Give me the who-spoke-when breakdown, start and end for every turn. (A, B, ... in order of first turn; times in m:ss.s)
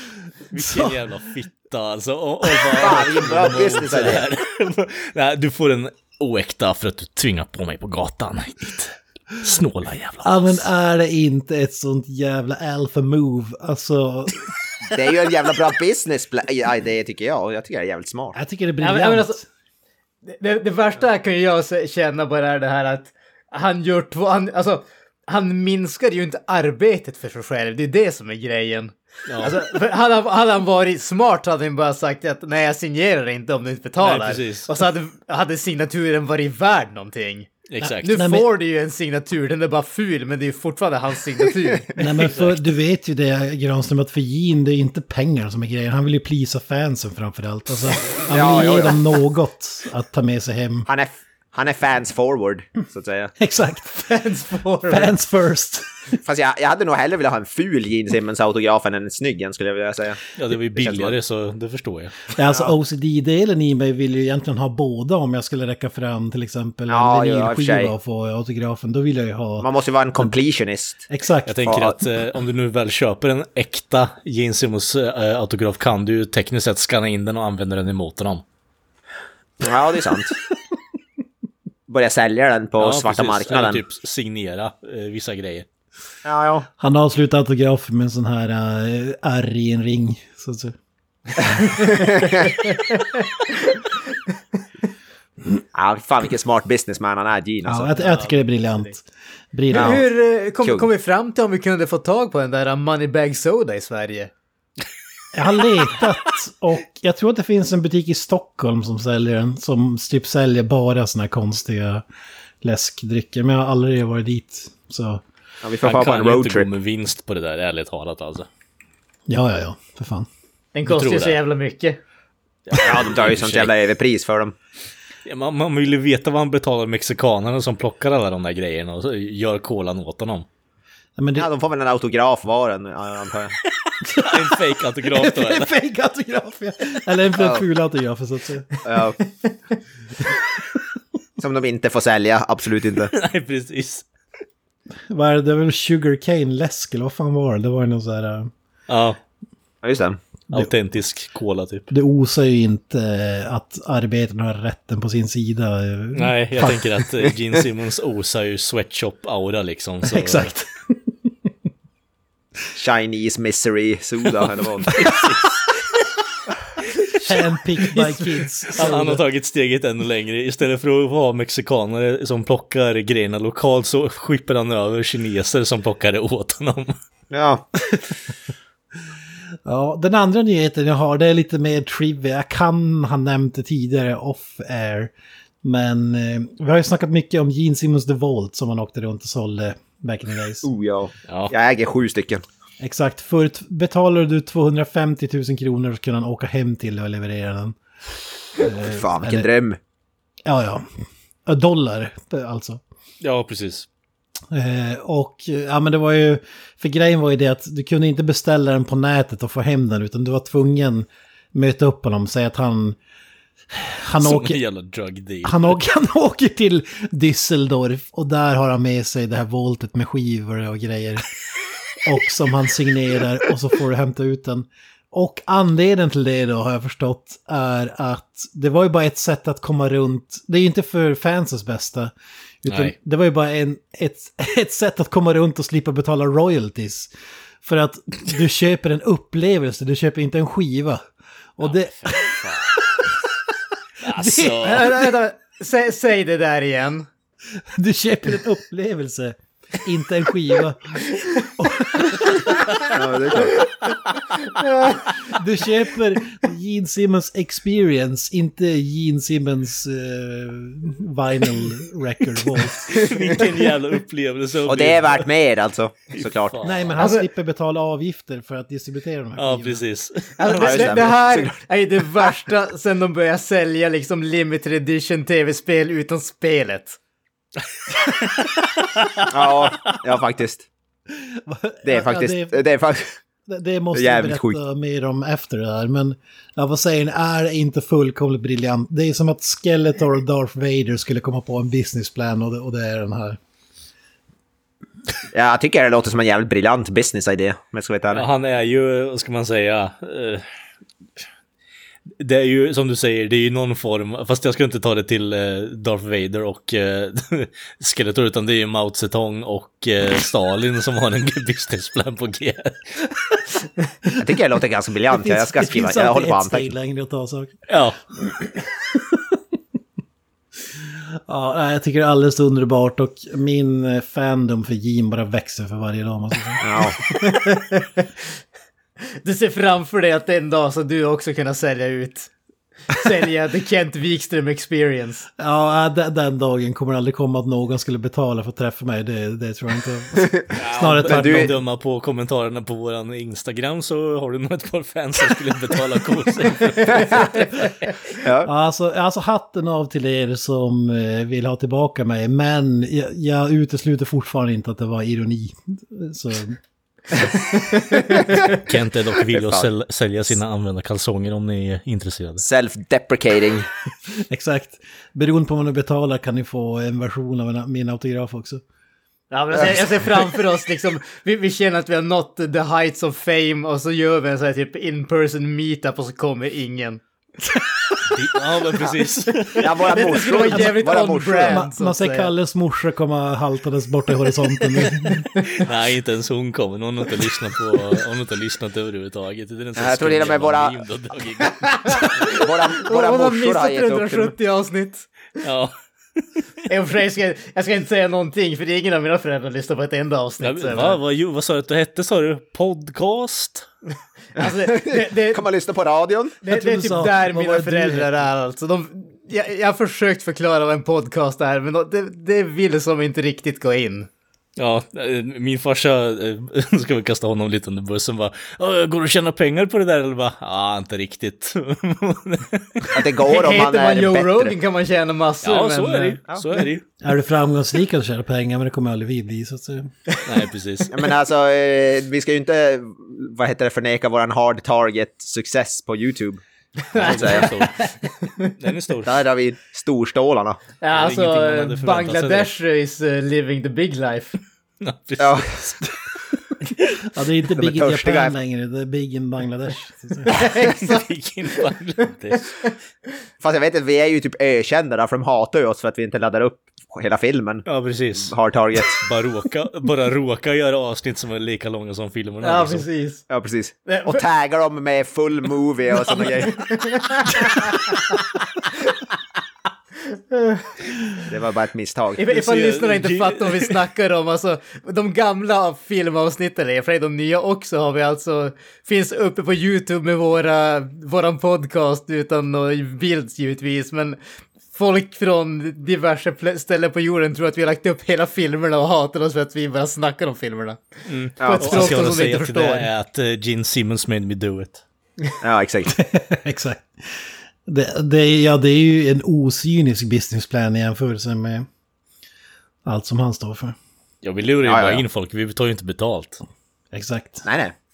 0:00.5-0:10.7 A
0:00.5-0:01.0 B
0:02.7-0:04.2 C
0:10.2-0:14.5 B
0:14.9-0:18.4 C
0:18.4-0:19.4 B
0:18.8-0:19.4 D
0:20.2-0:37.5 D
0:29.3-0:29.6 A
0:34.0-0:34.7 A
0:37.7-0:38.2 A
0:37.8-0:38.5 B
0:38.0-0:41.9 D
0:42.0-0:50.9 B
0:42.2-0:42.6 A
0:48.3-0:49.0 C
0:50.9-0:53.3 C
0:53.4-0:54.1 B
0:54.0-0:55.1 D
0:54.9-0:55.9 B
0:56.2-1:00.2 C
1:00.4-1:02.3 A
1:00.8-1:01.1 C
1:02.4-1:10.4 B
1:06.9-1:07.9 C
1:09.6-1:11.0 C
1:11.1-1:11.8 B
1:11.5-1:18.4 A
1:11.7-1:11.9 C
1:19.6-1:20.4 C
1:21.9-1:23.8 C
1:22.8-1:25.7 A
1:26.2-1:26.7 C
1:26.8-1:30.7 B
1:31.8-1:33.8 D
1:31.9-1:32.4 C
1:35.7-1:38.2 C
1:37.6-1:40.0 B
1:39.7-1:40.0 C
1:39.7-1:44.3 D
1:40.6-1:40.9 C
1:45.3-1:52.0 B
1:52.6-1:55.2 B
1:55.6-1:56.7 C
1:55.8-1:58.5 A
1:59.3-2:00.3 B
2:00.8-2:02.0 D
2:00.9-2:01.4 A
2:02.7-2:03.7 A
2:02.8-2:04.6 C
2:05.3-2:10.5 A
2:11.2-2:11.5 B
2:11.4-2:13.6 C
2:13.9-2:15.7 A
2:14.0-2:14.5 B
2:15.1-2:18.7 B
2:17.4-2:17.6 C
2:18.8-2:19.2 C
2:21.4-2:23.1 C
2:23.1-2:24.0 A
2:25.1-2:28.5 B
2:28.9-2:29.2 A
2:29.8-2:30.2 C
2:30.5-2:31.9 A
2:31.9-2:37.4 B
2:36.1-2:40.5 A
2:40.0-2:41.0 B
2:42.7-2:45.2 C
2:44.8-2:45.6 A
2:47.2-2:49.2 B
2:48.7-2:56.9 A
2:57.3-2:57.6 C
2:59.6-3:05.1 B
3:05.6-3:10.7 B
3:10.6-3:12.4 C
3:12.8-3:17.8 B
3:18.6-3:19.5 B
3:18.8-3:19.8 C
3:20.5-3:20.8 B
3:21.5-3:22.8 B
3:23.2-3:23.9 A
3:24.5-3:33.0 B
3:33.7-3:34.6 B
3:34.2-3:35.8 A
3:35.4-3:41.3 B
3:42.0-3:52.1 B
3:52.6-3:57.1 B
3:52.7-3:53.0 A
3:57.6-4:01.0 B
4:01.6-4:03.1 B
4:01.7-4:02.8 A
4:04.0-4:05.0 A
4:04.1-4:05.1 B
4:04.6-4:07.1 D
4:07.8-4:12.6 B
4:12.8-4:13.7 C
4:14.4-4:15.1 D
4:15.2-4:23.0 B
4:22.6-4:25.3 A
4:24.7-4:26.6 C
4:26.1-4:27.0 A
4:26.6-4:29.8 B
4:27.0-4:27.3 D
4:29.4-4:31.1 A
4:30.4-4:37.0 D
4:30.6-4:31.5 C
4:39.2-4:39.8 A
4:39.3-4:40.7 C
4:41.1-4:42.6 B
4:41.8-4:43.2 C
4:43.5-4:53.4 B
4:43.9-4:44.6 C
4:55.3-4:58.3 C
4:58.1-5:00.5 A
5:02.2-5:13.0 A
5:14.2-5:16.7 C
5:15.1-5:17.6 B
5:17.7-5:18.0 A
5:18.2-5:19.4 B
5:20.8-5:26.6 B
5:26.6-5:27.0 C
5:27.1-5:28.1 D
5:29.2-5:32.3 D
5:32.9-5:35.3 D
5:35.4-5:41.6 B
5:40.2-5:40.5 C
5:40.6-5:47.5 A
5:41.0-5:41.5 C
5:46.9-5:47.5 C
5:48.2-5:48.5 C
5:48.4-5:56.6 B
5:58.0-5:58.3 C
5:58.1-6:02.4 A
5:59.3-5:59.7 C
6:02.4-6:03.7 C
6:04.2-6:08.6 B
6:09.3-6:17.0 D
6:18.1-6:19.7 A
6:19.6-6:21.6 C
6:19.9-6:22.3 D
6:20.4-6:25.4 B
6:25.0-6:25.6 D
6:25.6-6:32.1 A
6:29.8-6:30.8 C
6:31.9-6:35.1 D
6:32.2-6:34.3 C
6:35.4-6:36.2 A
6:36.7-6:41.0 D
6:40.4-6:43.7 A
6:44.4-6:45.4 D
6:44.4-6:46.4 C
6:46.4-6:54.1 D
6:46.5-6:48.2 B
6:54.6-7:02.9 A
7:02.9-7:04.5 C
7:03.2-7:06.2 D
7:05.4-7:06.8 A
7:07.0-7:09.9 B
7:10.2-7:10.9 A
7:10.9-7:16.4 C
7:16.9-7:18.5 D
7:17.0-7:17.9 A
7:17.0-7:17.5 C
7:18.4-7:19.2 A
7:19.0-7:20.6 C
7:20.8-7:24.4 D
7:20.9-7:22.5 A
7:24.8-7:25.9 A
7:25.2-7:25.5 C
7:26.6-7:30.4 B
7:27.6-7:28.3 C
7:30.3-7:31.1 D
7:30.5-7:32.6 A
7:33.4-7:37.6 C
7:37.7-7:38.4 A
7:38.2-7:39.0 C
7:38.9-7:42.8 A
7:42.4-7:43.2 D
7:43.3-7:47.4 C
7:43.9-7:44.2 D
7:46.3-7:48.1 D
7:50.1-7:50.8 D
7:51.3-7:52.2 C
7:52.2-8:04.2 D
7:52.3-7:53.8 A
8:04.7-8:12.9 D
8:11.1-8:14.8 A
8:11.4-8:12.0 C
8:15.4-8:16.0 C
8:15.9-8:21.7 B
8:22.8-8:23.8 B
8:24.2-8:26.4 A
8:24.6-8:25.0 C
8:26.9-8:27.5 B
8:27.4-8:27.7 C